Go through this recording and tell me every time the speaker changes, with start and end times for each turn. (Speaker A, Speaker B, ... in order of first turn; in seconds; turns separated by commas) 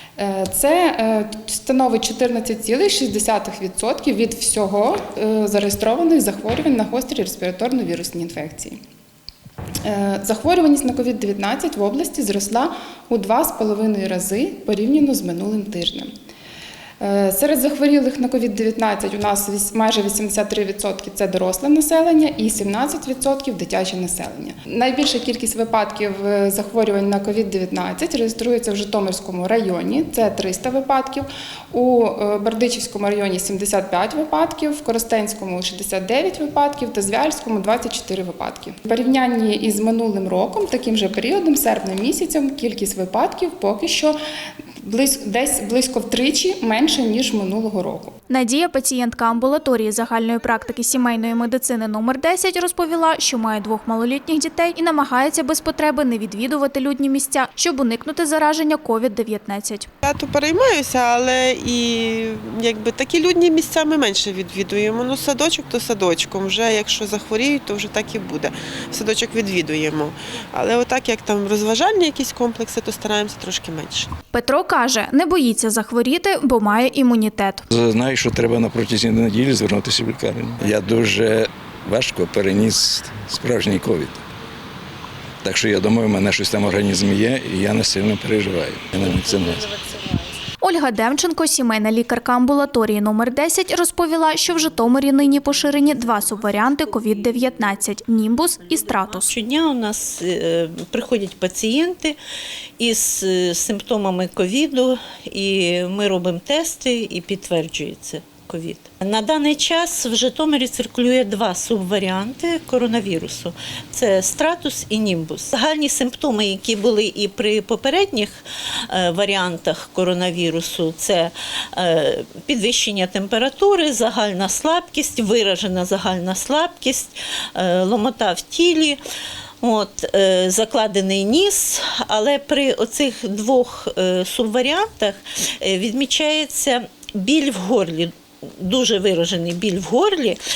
Speaker A: 0.2-8.8, Speaker A: 9.8-16.1, Speaker A: 17.0-44.2, Speaker A: 44.8-48.1, Speaker B: 48.3-59.9, Speaker C: 60.0-74.1, Speaker B: 74.3-77.6, Speaker D: 77.7-84.2, Speaker D: 85.4-89.7, Speaker B: 90.6-99.3, Speaker E: 99.1-102.2, Speaker E: 102.8-129.0, Speaker E: 129.6-140.4